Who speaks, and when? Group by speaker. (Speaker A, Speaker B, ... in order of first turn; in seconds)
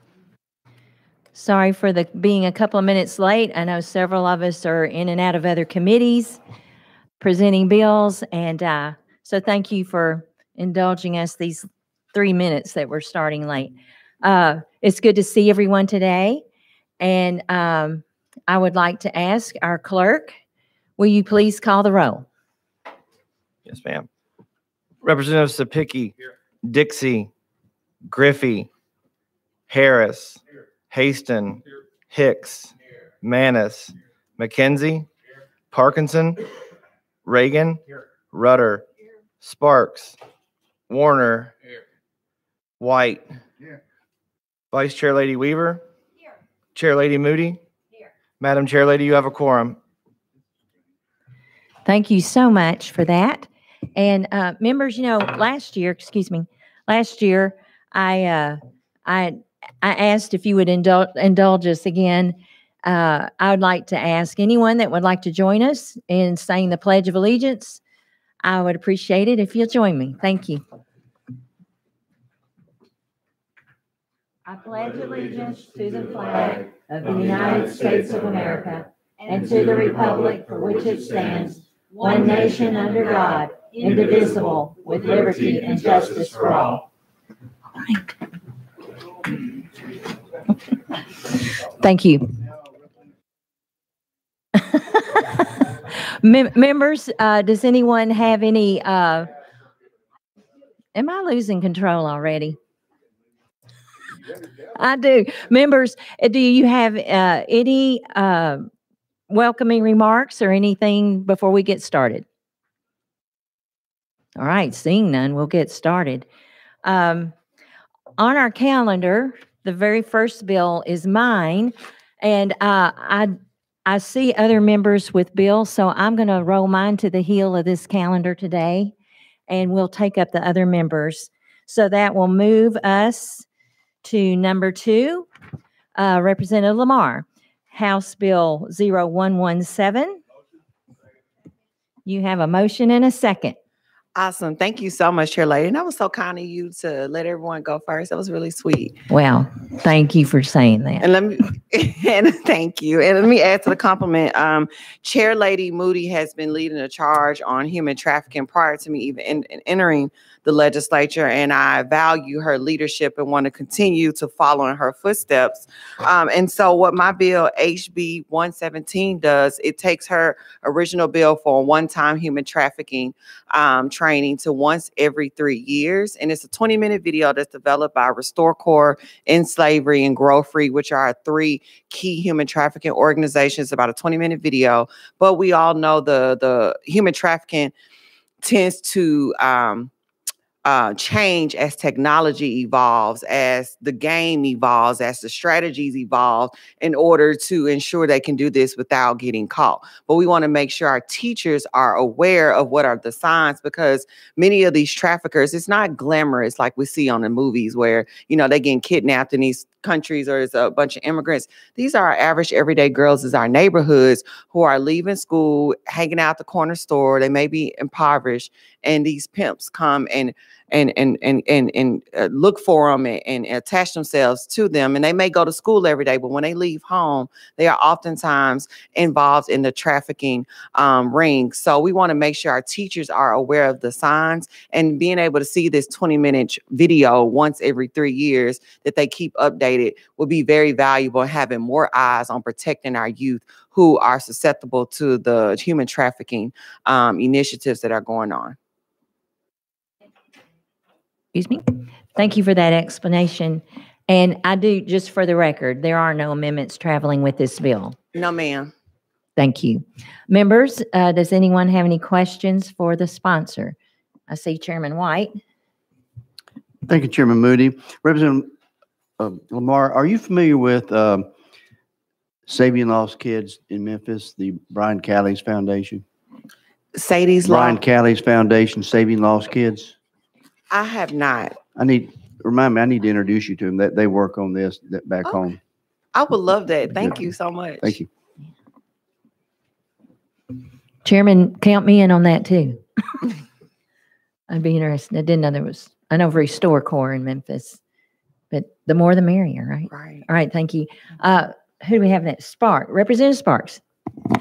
Speaker A: 1.3-6.4, 7.2-16.4, 17.0-20.4, 21.0-22.2, 51.9-67.8, 68.4-70.6, 74.5-86.8, 91.8-92.3, 94.7-95.6, 96.2-99.3, 100.9-102.6, 104.7-108.7, 109.3-112.2, 114.4-116.2, 116.8-117.3, 118.2-128.9, 129.5-133.4, 134.0-135.2, 135.9-140.2, 142.1-143.6, 149.1-151.1, 251.3-257.9, 259.4-263.8, 264.3-265.4, 291.0-292.8, 294.5-297.8, 298.5-303.8
Speaker B: 23.6-24.1, 25.0-27.3, 28.1-28.7, 29.7-30.4, 30.9-35.1, 35.7-36.4, 37.2-37.8, 38.3-38.8, 39.4-40.1, 40.9-41.5, 42.8-43.2, 44.7-45.8, 46.8-47.6, 48.4-49.8
Speaker C: 144.1-149.0, 151.0-187.7, 188.4-189.9, 190.6-248.6, 258.1-258.7, 276.9-277.8, 280.7-281.6, 286.1-287.9, 299.9-300.2
Speaker D: 266.9-268.5, 269.2-271.3, 272.5-276.0, 277.4-279.9, 281.8-285.6, 287.8-288.1